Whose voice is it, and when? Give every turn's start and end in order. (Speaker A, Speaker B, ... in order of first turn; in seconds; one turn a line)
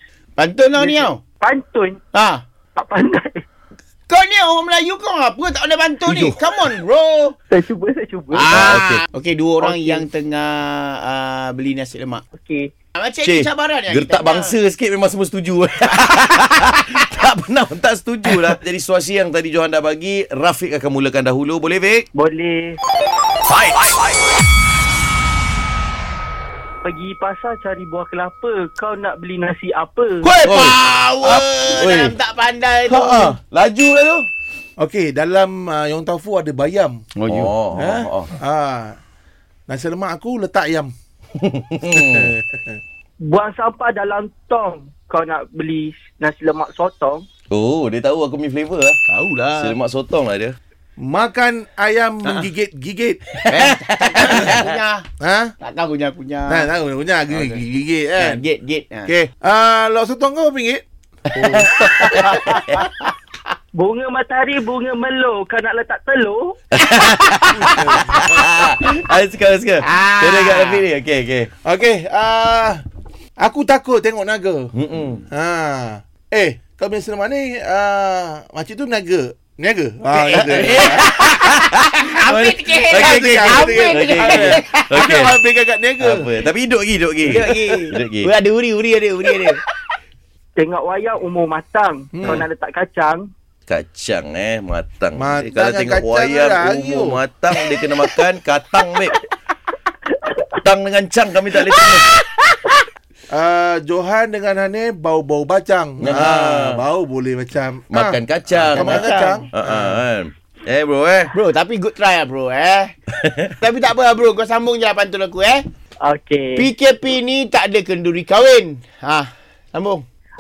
Speaker A: 0.4-1.2
Speaker B: 0.8-2.0
Speaker A: 2.1-2.4
Speaker B: 2.8-3.4
Speaker A: 4.1-7.4
Speaker B: 7.5-8.6
Speaker A: 8.3-12.2
Speaker C: 8.5-9.1
Speaker B: 9.6-10.1
Speaker B: 12.3-12.7
Speaker A: 12.9-14.6
Speaker C: 13.2-22.1
Speaker B: 22.1-22.8
Speaker C: 23.4-23.8
Speaker B: 26.8-30.3
Speaker A: 30.2-33.4
Speaker C: 30.4-32.2
Speaker C: 32.9-34.3
Speaker D: 34.8-37.0
Speaker A: 37.2-37.5
Speaker C: 37.3-38.3
Speaker D: 37.7-39.0
Speaker D: 39.7-40.9
Speaker C: 41.4-42.3
Speaker D: 41.9-42.8
Speaker B: 43.2-47.2
Speaker C: 47.5-49.0
Speaker A: 49.1-49.8
Speaker C: 49.5-50.5
Speaker D: 51.0-53.4
Speaker A: 53.5-55.1
Speaker C: 53.6-54.8
Speaker D: 55.2-55.5
Speaker A: 55.6-56.7
Speaker D: 56.5-58.4
Speaker A: 57.3-57.6
Speaker A: 58.2-59.1
Speaker D: 59.1-60.8
Speaker D: 61.3-62.6
Speaker C: 61.4-62.8
Speaker A: 61.9-63.0
Speaker B: 63.8-66.6
Speaker C: 66.7-71.5
Speaker D: 67.5-68.4
Speaker A: 68.1-68.4
Speaker A: 69.8-70.9
Speaker D: 71.6-72.8
Speaker D: 73.4-74.7
Speaker C: 74.8-75.2
Speaker D: 75.3-81.2
Speaker C: 80.2-85.3
Speaker A: 80.3-85.1
Speaker D: 82.9-86.3
Speaker C: 86.0-88.3
Speaker A: 87.2-89.6
Speaker B: 90.6-93.3
Speaker D: 92.1-92.5
Speaker C: 93.7-99.1
Speaker D: 95.2-97.2
Speaker B: 100.1-100.5
Speaker C: 100.7-102.0
Speaker D: 103.3-110.0
Speaker C: 106.0-106.8
Speaker C: 107.9-111.3
Speaker A: 108.7-109.5
Speaker A: 111.3-113.0
Speaker C: 113.2-113.5
Speaker A: 113.6-115.6
Speaker B: 116.0-116.7
Speaker A: 116.6-120.0